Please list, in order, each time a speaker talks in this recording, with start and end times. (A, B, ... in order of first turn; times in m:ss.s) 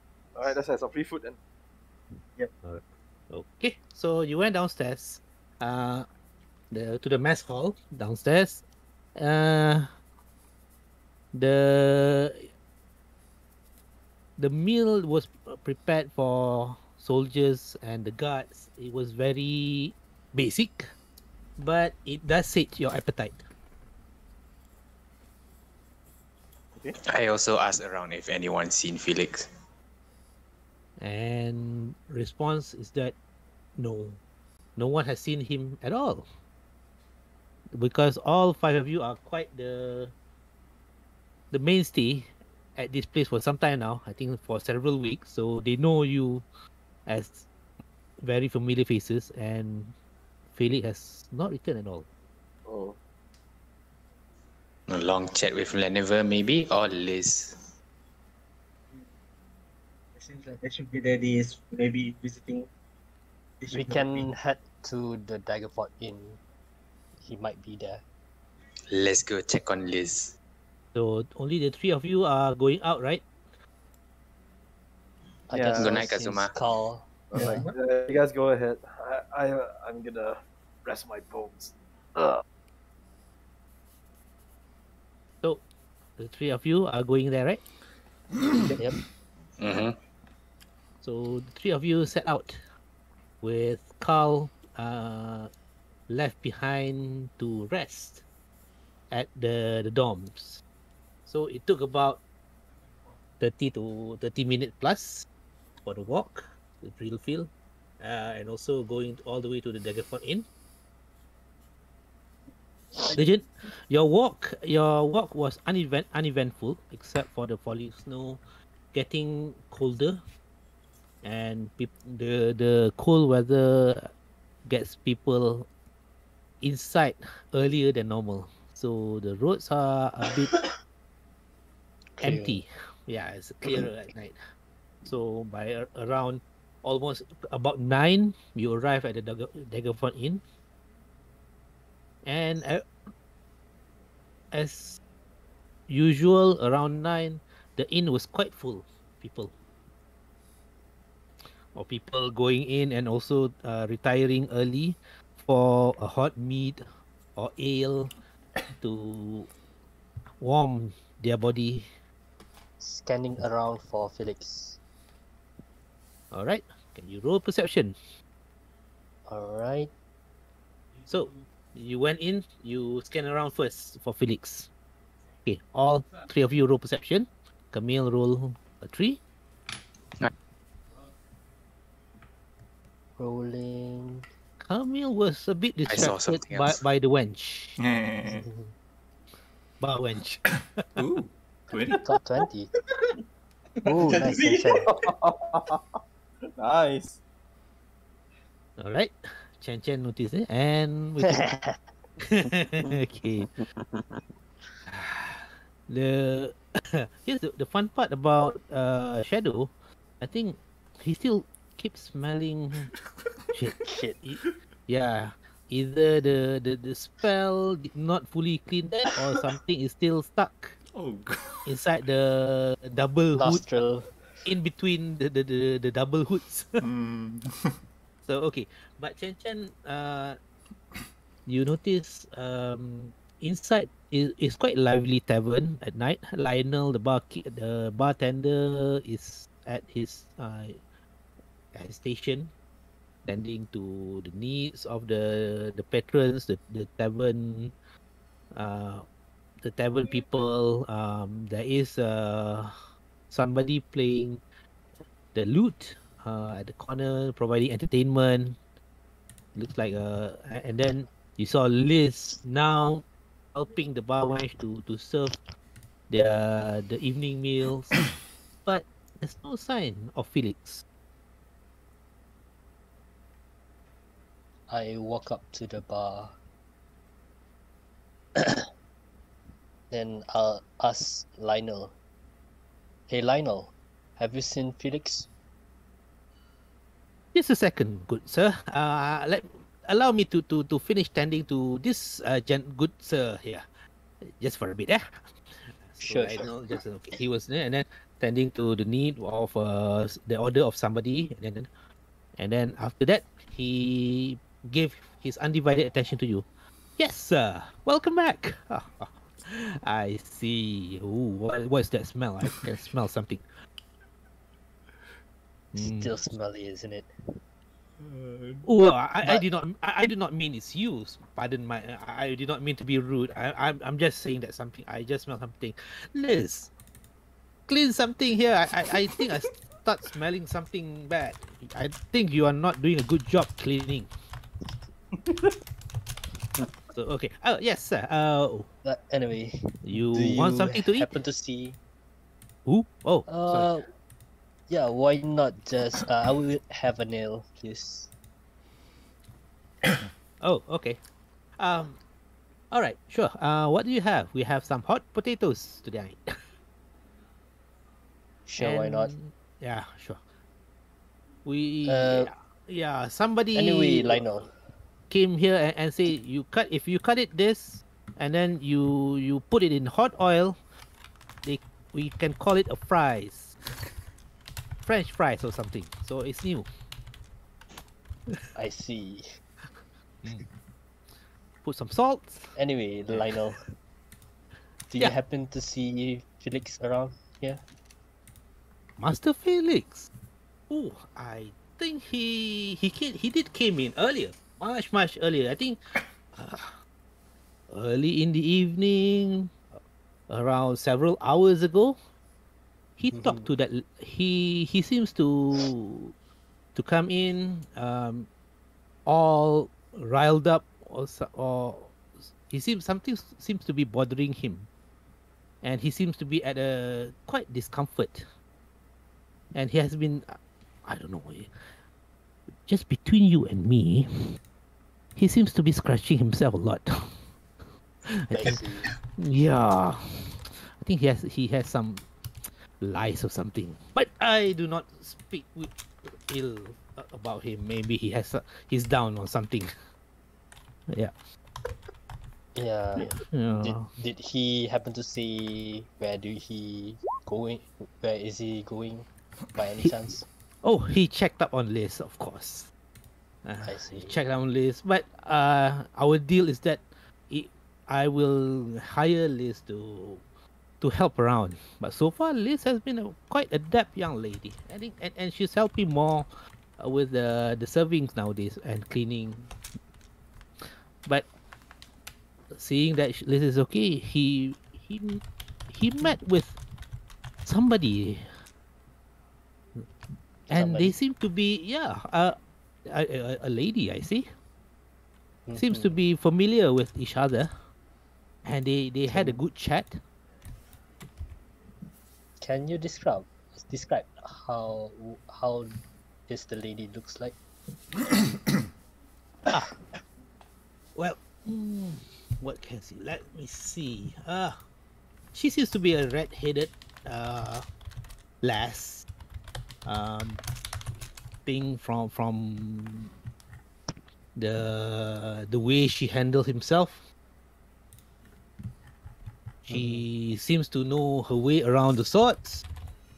0:00.3-0:01.4 A
0:02.6-0:06.1 B
0:06.7-0:08.6 B
0:09.2-0:09.9 B
0:11.3-0:12.5 B
0:14.4-0:20.9 B
0:21.6-0:23.4 B
0:27.0-0:29.5 C
0:31.0-0:33.1 B
0:33.8-0:34.2 B
0:34.8-0:36.3 B
0:37.7-0:40.1 B
0:41.5-0:46.4 B
0:47.0-0:47.5 B
0:48.2-0:49.9 B
0:50.5-0:52.0 B
0:52.6-0:53.0 A
0:54.9-0:57.7 C
1:00.1-1:02.7 D
1:03.6-1:04.3 D
1:03.7-1:06.4 E
1:07.2-1:08.0 E
1:08.9-1:10.3 C
1:10.9-1:13.2 B
1:15.5-1:17.6 E
1:15.5-1:15.9 A
1:15.7-1:16.5 C
1:17.3-1:22.4 A
1:17.4-1:17.7 D
1:26.2-1:27.6 B
1:28.5-1:29.0 E
1:29.6-1:30.0 C
1:31.0-1:32.6 B
1:33.4-1:35.5 B
1:36.1-1:38.2 B
1:39.1-1:40.6 B
1:41.2-1:42.2 B
1:43.4-1:45.3 B
1:45.8-1:50.5 B
1:53.1-1:58.4 B
1:58.9-2:00.2 B
2:01.2-2:04.1 B
2:04.6-2:05.7 B
2:06.6-2:10.5 B
2:12.2-2:12.6 E
2:12.2-2:14.4 B
2:15.0-2:20.4 B
2:22.2-2:22.9 B
2:24.5-2:25.0 B
2:25.9-2:29.5 B
2:31.7-2:38.1 B
2:38.7-2:39.5 B
2:40.4-2:41.9 B
2:42.8-2:44.8 E
2:46.3-2:48.0 B
2:49.3-2:49.9 E
2:51.1-2:54.7 B
2:55.4-2:59.2 B
3:03.2-3:04.2 E
3:04.6-3:07.8 B
3:05.8-3:06.8 C
3:07.8-3:08.4 F
3:08.4-3:08.7 E
3:09.8-3:10.8 B
3:10.9-3:12.0 F
3:11.7-3:12.7 E
3:13.8-3:14.9 D
3:13.8-3:14.8 E
3:14.8-3:16.0 A
3:16.6-3:17.2 A
3:18.8-3:21.5 B
3:21.2-3:21.8 E
3:22.2-3:23.5 B
3:24.9-3:32.9 B
3:33.5-3:40.8 B
3:33.8-3:34.2 E
3:40.9-3:41.6 F
3:41.6-3:43.6 B
3:43.4-3:44.1 E
3:44.4-3:46.8 B
3:46.8-3:47.8 F
3:48.2-3:50.4 B
3:51.4-4:00.8 B
4:01.7-4:02.5 B
4:03.2-4:07.7 B
4:08.5-4:09.0 B
4:09.6-4:12.7 B
4:13.3-4:14.4 B
4:15.3-4:18.6 B
4:19.5-4:25.4 B
4:26.1-4:28.0 B
4:28.6-4:30.8 B
4:34.7-4:36.3 E
4:38.4-4:38.7 E
4:39.9-4:41.9 E
4:43.1-4:45.3 E
4:47.3-4:53.7 B
4:54.4-5:01.7 B
4:56.0-4:56.5 E
5:02.4-5:06.4 B
5:07.0-5:13.4 B
5:15.7-5:16.1 B
5:15.8-5:17.1 E
5:18.0-5:18.6 F
5:18.6-5:26.7 B
5:27.7-5:34.1 B
5:36.9-5:38.7 B
5:38.8-5:41.8 E
5:39.8-5:41.1 B
5:42.6-5:43.7 B
5:43.3-5:43.9 E
5:44.7-5:48.1 E
5:50.4-5:51.0 B
5:51.6-5:52.0 B
5:52.7-5:56.4 B
5:58.5-5:59.1 E
5:58.6-6:00.2 B
6:01.4-6:04.3 B
6:01.8-6:02.3 E
6:03.5-6:04.5 E
6:05.1-6:10.6 B
6:11.4-6:13.5 B
6:14.8-6:16.7 B
6:18.6-6:19.2 E
6:21.6-6:22.5 B
6:22.6-6:23.6 E
6:23.1-6:23.4 B
6:24.9-6:27.6 E
6:29.0-6:30.1 B
6:30.7-6:35.8 B
6:36.3-6:36.8 B
6:37.7-6:42.0 B
6:43.0-6:46.1 B
6:43.1-6:43.5 E
6:46.7-6:48.3 B
6:49.0-6:54.7 B
6:55.6-6:58.3 B
6:59.5-7:01.7 B
7:02.5-7:04.3 B
7:05.2-7:07.2 B
7:08.1-7:12.0 B
7:08.3-7:08.9 E
7:12.8-7:19.7 B
7:22.6-7:30.2 E
7:23.0-7:23.9 B
7:30.6-7:32.7 B
7:33.4-7:40.2 B
7:33.6-7:34.2 E
7:40.8-7:49.5 B
7:50.6-7:51.3 B
7:52.5-7:56.6 B
7:57.4-7:58.3 B
8:00.5-8:00.9 E
8:00.5-8:04.3 B
8:05.5-8:05.9 E
8:05.5-8:07.5 B
8:08.4-8:10.0 B
8:09.1-8:09.4 E
8:12.4-8:15.8 E
8:16.3-8:17.3 E
8:20.9-8:24.6 B
8:25.3-8:27.6 B
8:28.4-8:29.1 B
8:29.8-8:30.4 B
8:31.4-8:33.1 B
8:34.4-8:37.0 B
8:39.6-8:42.6 B
8:39.7-8:40.0 E